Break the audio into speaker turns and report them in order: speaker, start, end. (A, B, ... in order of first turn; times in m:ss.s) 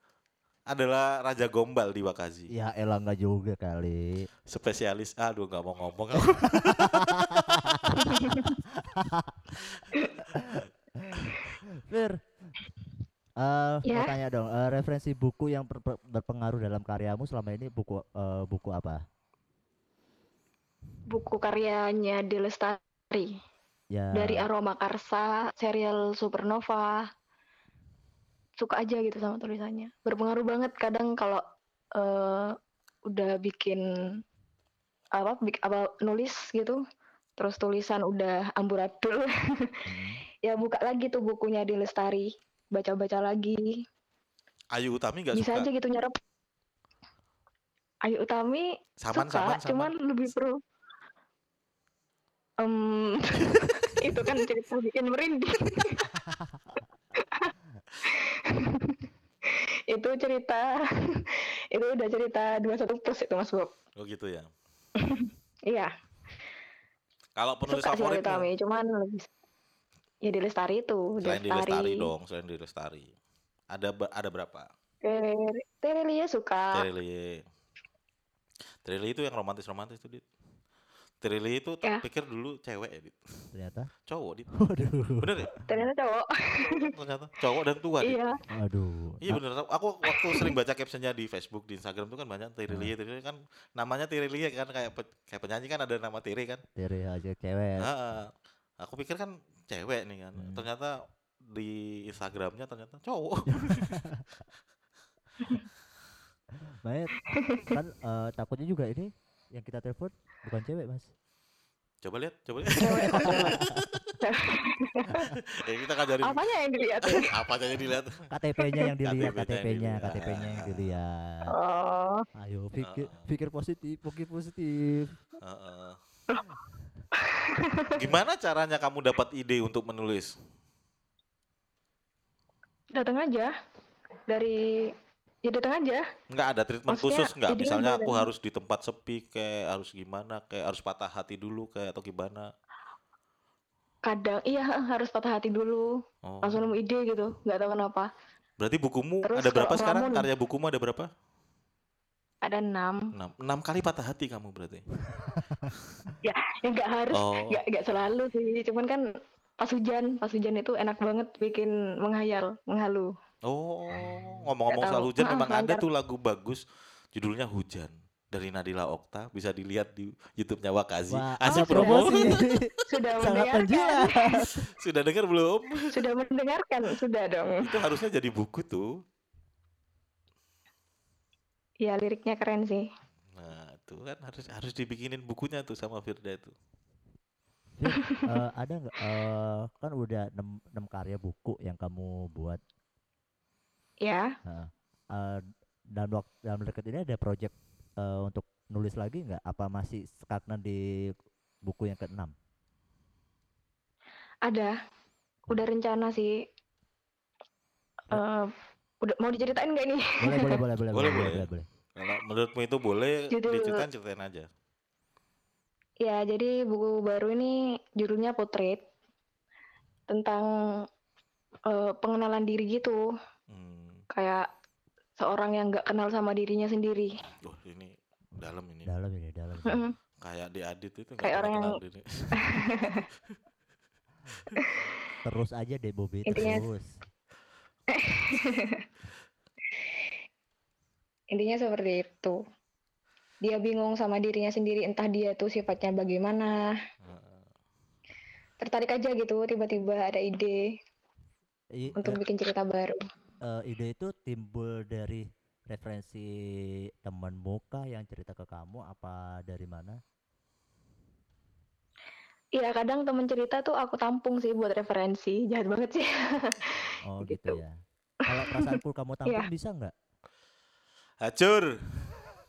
0:00.7-0:02.5 A
0:02.5-0:04.3 B
0:04.5-0:07.9 A
0:06.2-0:08.2 B
0:08.0-0:08.6 C
0:08.7-0:09.6 B
0:10.3-0:12.2 B
0:13.4-0:19.0 B
0:13.9-0:14.1 C
0:21.1-0:23.4 C
0:23.9-0:24.5 B
0:24.1-0:27.1 C
0:28.6-0:31.4 C
0:32.0-0:32.5 C
0:33.1-0:34.2 C
0:35.2-0:36.8 C
0:37.4-0:39.7 C
0:39.8-0:40.2 B
0:40.4-0:43.8 C
0:44.7-0:45.7 A
0:45.3-0:46.1 C
0:48.0-0:50.6 C
0:49.0-0:49.9 A
0:52.6-0:56.1 C
0:56.2-0:56.7 B
0:57.2-0:57.5 C
0:58.1-0:59.0 C
0:59.9-1:03.7 C
1:04.0-1:04.5 A
1:05.0-1:05.9 C
1:07.4-1:08.5 A
1:07.7-1:09.3 C
1:10.2-1:12.1 C
1:11.2-1:13.1 A
1:13.7-1:14.7 A
1:15.0-1:16.8 C
1:16.7-1:17.4 A
1:18.8-1:20.2 A
1:21.2-1:23.5 A
1:23.5-1:23.9 B
1:24.1-1:24.5 A
1:24.6-1:25.5 B
1:25.2-1:25.5 A
1:25.7-1:26.9 C
1:26.5-1:28.2 A
1:28.0-1:28.4 C
1:28.5-1:29.4 B
1:29.2-1:36.6 A
1:30.1-1:30.5 C
1:36.8-1:37.9 B
1:37.8-1:44.0 A
1:40.4-1:40.6 B
1:43.5-1:44.2 B
1:46.8-1:47.1 B
1:47.3-1:47.7 C
1:47.7-1:51.1 B
1:52.0-1:54.1 A
1:52.8-1:53.6 C
1:53.0-1:53.8 B
1:54.2-1:55.3 C
1:55.3-1:56.4 A
1:56.2-1:57.3 C
1:57.0-1:58.2 A
1:58.3-2:01.6 B
1:59.0-2:01.0 A
2:01.5-2:02.2 C
2:02.3-2:05.2 B
2:02.8-2:03.2 A
2:05.4-2:06.0 A
2:07.2-2:08.0 C
2:07.9-2:10.3 A
2:12.9-2:13.5 C
2:14.3-2:16.1 C
2:16.3-2:22.5 A
2:16.9-2:18.3 C
2:24.0-2:28.1 C
2:26.2-2:26.7 A
2:28.6-2:31.1 A
2:29.2-2:30.2 C
2:32.4-2:33.1 C
2:33.1-2:34.8 A
2:35.1-2:35.7 B
2:36.2-2:39.0 C
2:37.1-2:37.6 A
2:39.6-2:43.1 C
2:43.4-2:46.6 A
2:44.0-2:44.4 B
2:44.7-2:45.8 C
2:47.1-2:52.4 A
2:51.1-2:54.7 B
2:51.5-2:52.3 C
2:52.9-2:54.4 C
2:54.8-2:56.0 A
2:55.9-2:57.7 C
2:57.6-2:58.9 A
3:01.8-3:02.9 C
3:03.3-3:06.5 A
3:07.8-3:12.6 B
3:08.0-3:08.2 C
3:14.0-3:14.3 C
3:14.4-3:15.4 B
3:15.9-3:21.1 B
3:21.6-3:22.3 B
3:24.4-3:24.7 C
3:25.5-3:26.3 C
3:28.1-3:28.5 C
3:29.0-3:30.6 C
3:30.2-3:31.7 B
3:30.9-3:34.5 A
3:33.3-3:33.8 C
3:36.0-3:38.8 C
3:40.1-3:40.5 C
3:41.7-3:43.0 C
3:43.5-3:44.0 A
3:44.1-3:44.5 C
3:45.2-3:47.1 C
3:47.4-3:48.9 A
3:48.8-3:49.8 B
3:49.6-3:49.9 C
3:50.2-3:52.9 A
3:51.2-3:51.8 C
3:52.4-3:53.0 C
3:55.2-3:56.9 B
3:56.3-3:56.6 C
3:57.9-3:58.8 C
4:01.3-4:02.4 C
4:03.4-4:06.7 C
4:07.0-4:07.4 A
4:08.6-4:10.6 C
4:11.7-4:12.2 B
4:12.0-4:13.0 C
4:13.4-4:20.0 B
4:22.6-4:27.6 C
4:27.0-4:29.9 B
4:28.5-4:29.5 C
4:31.2-4:31.7 A